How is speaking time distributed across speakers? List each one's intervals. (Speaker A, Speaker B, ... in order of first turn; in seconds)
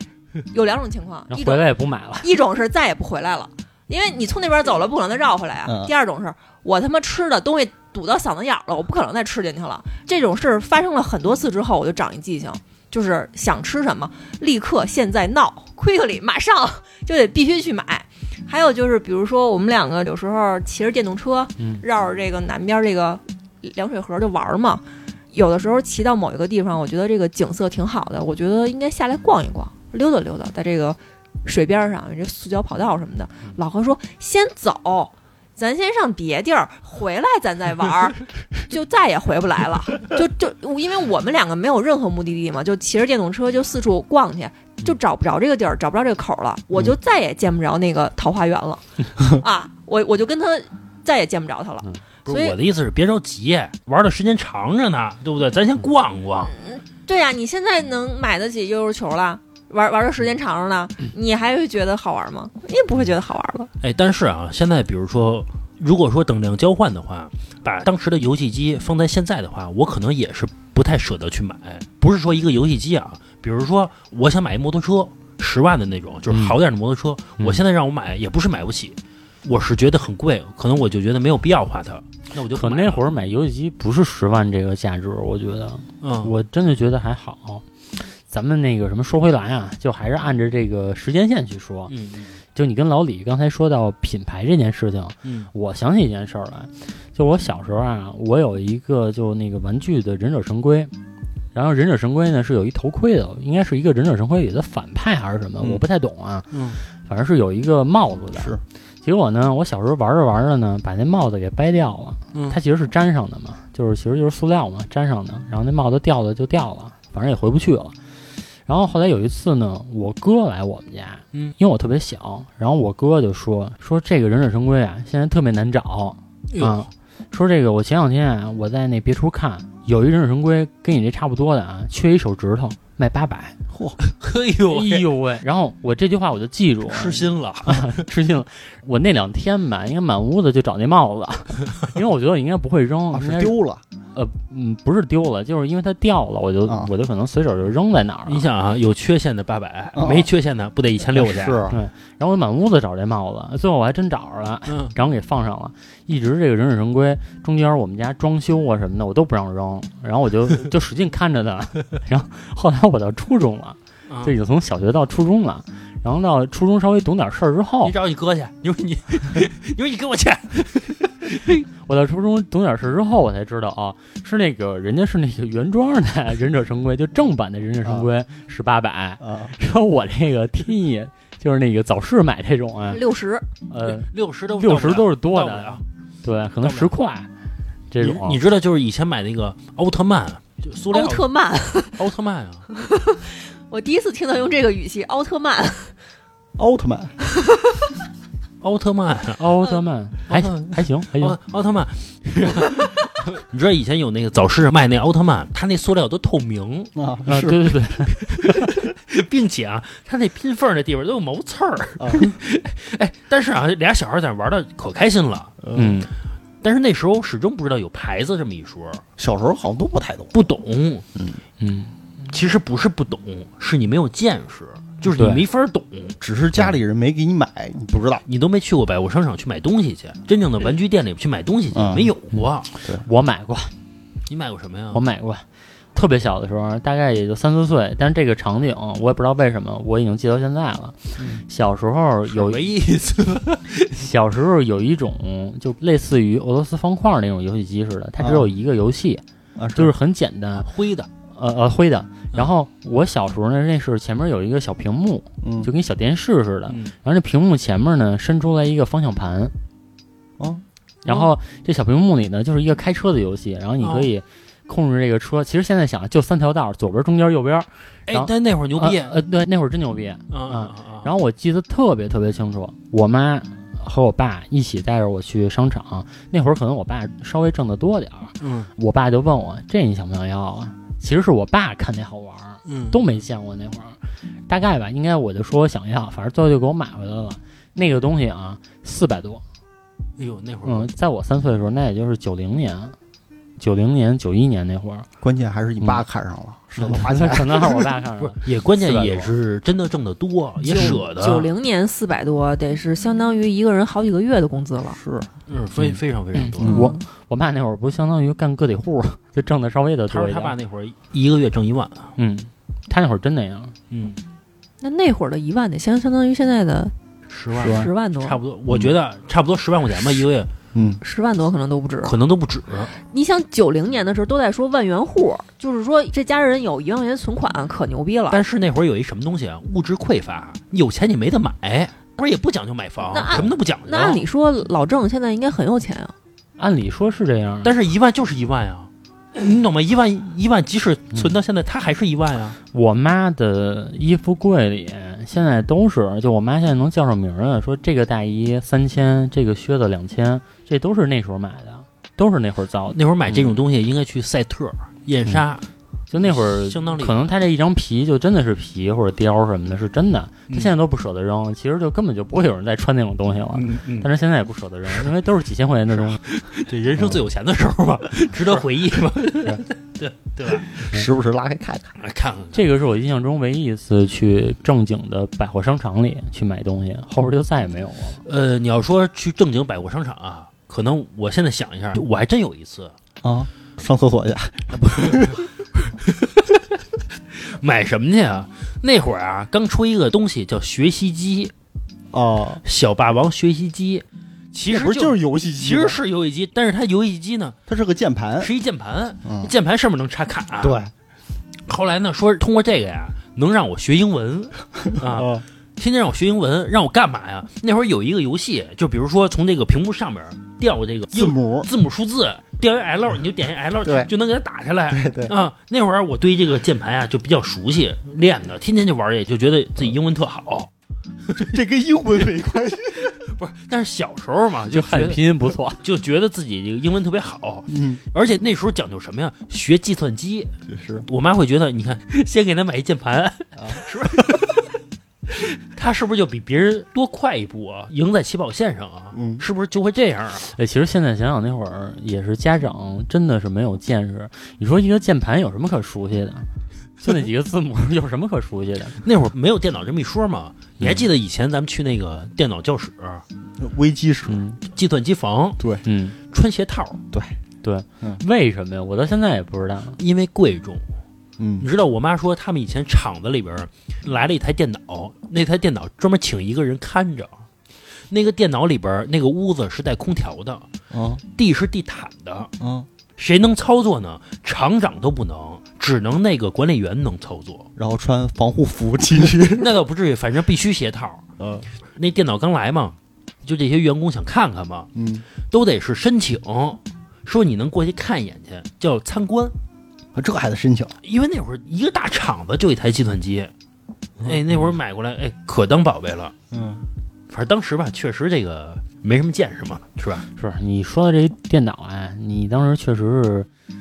Speaker A: 0.5-1.7, 2.2-52.6, 56.5-63.7, 182.9-183.4, 190.9-192.0, 192.7-195.9, 300.6-305.0, 306.6-307.0, 314.8-316.9, 317.6-318.4, 321.0-322.2, 323.1-328.4, 333.1-336.1
Speaker B: 1.3-2.3, 21.6-21.8, 76.3-76.5, 82.5-91.9, 92.5-100.9, 101.5-117.9, 118.7-133.6, 134.7-143.5, 144.1-148.4, 151.7-167.9, 171.8-183.0, 183.7-187.3, 187.9-188.4, 199.4-201.4, 207.3-208.7, 215.7-216.1, 221.6-221.9, 225.0-225.4, 233.0-233.7, 234.9-242.6, 243.9-249.2, 249.7-250.7, 251.3-259.5, 261.0-289.4, 290.6-292.9, 293.6-295.1, 296.8-299.3, 305.8-310.5, 312.2-313.7, 336.6-337.7, 342.7-353.5, 356.1-366.2, 372.5-378.2, 424.7-425.8, 440.5-446.5, 447.0-449.0, 454.3-454.6, 455.8-456.2, 457.6-460.0, 500.4-503.5
Speaker C: 5.7-5.9, 108.3-108.6, 133.7-134.0, 143.1-143.8, 146.7-146.9, 149.9-150.3, 151.1-151.8, 179.2-179.5, 196.6-197.2, 206.9-207.6, 212.0-212.3, 215.6-216.0, 219.2-220.3, 226.2-228.2, 231.7-232.1, 248.2-248.5, 249.6-249.9, 255.4-255.7, 260.4-260.6, 295.2-297.9, 304.9-305.3, 306.6-306.9, 318.7-318.9, 320.7-321.0, 370.7-372.0, 383.2-385.4, 392.1-392.6, 394.7-396.0, 397.7-398.5, 399.2-399.5, 400.6-400.9, 405.0-405.4, 411.1-411.7, 413.8-414.1, 414.9-415.3, 421.3-423.2, 427.7-428.0, 430.7-431.1, 433.6-433.8, 439.1-439.4, 453.6-454.4, 457.1-457.4, 461.4-461.7, 470.9-471.2, 472.6-472.9, 477.8-479.7, 481.4-481.6, 484.9-485.2, 490.1-490.9, 494.2-494.7, 496.5-496.8
Speaker D: 52.2-56.5, 63.8-83.0, 86.0-86.3, 91.9-92.4, 95.2-95.5, 106.5-106.8, 112.3-112.6, 126.5-126.8, 134.1-135.1, 136.9-138.0, 148.3-151.6, 154.7-154.9, 164.1-164.3, 167.8-171.5, 184.0-185.8, 186.6-186.9, 188.0-191.3, 192.0-192.6, 198.6-199.4, 200.3-206.9, 208.2-215.6, 216.6-219.0, 220.3-221.0, 222.3-226.2, 228.3-232.7, 234.3-235.0, 242.3-243.9, 250.6-251.1, 256.7-256.9, 263.8-264.1, 268.1-269.2, 270.3-271.1, 278.4-278.7, 282.6-283.0, 290.2-290.9, 298.2-301.5, 305.5-306.8, 310.1-312.1, 313.9-314.2, 317.3-320.5, 322.0-322.9, 328.3-334.2, 337.6-342.6, 352.9-355.6, 356.2-357.2, 363.5-364.1, 365.9-370.9, 372.0-372.6, 378.2-382.9, 386.0-386.6, 387.3-391.5, 392.6-397.6, 398.4-400.8, 401.7-420.7, 422.9-425.2, 425.8-430.5, 431.1-434.7, 435.3-440.5, 449.0-453.2, 454.7-455.6, 456.3-457.0, 460.0-460.8, 461.6-467.4, 468.1-470.7, 471.4-472.5, 473.2-477.7, 479.5-481.2, 481.9-484.9, 485.5-489.5, 491.0-493.5, 494.2-496.3, 497.3-500.2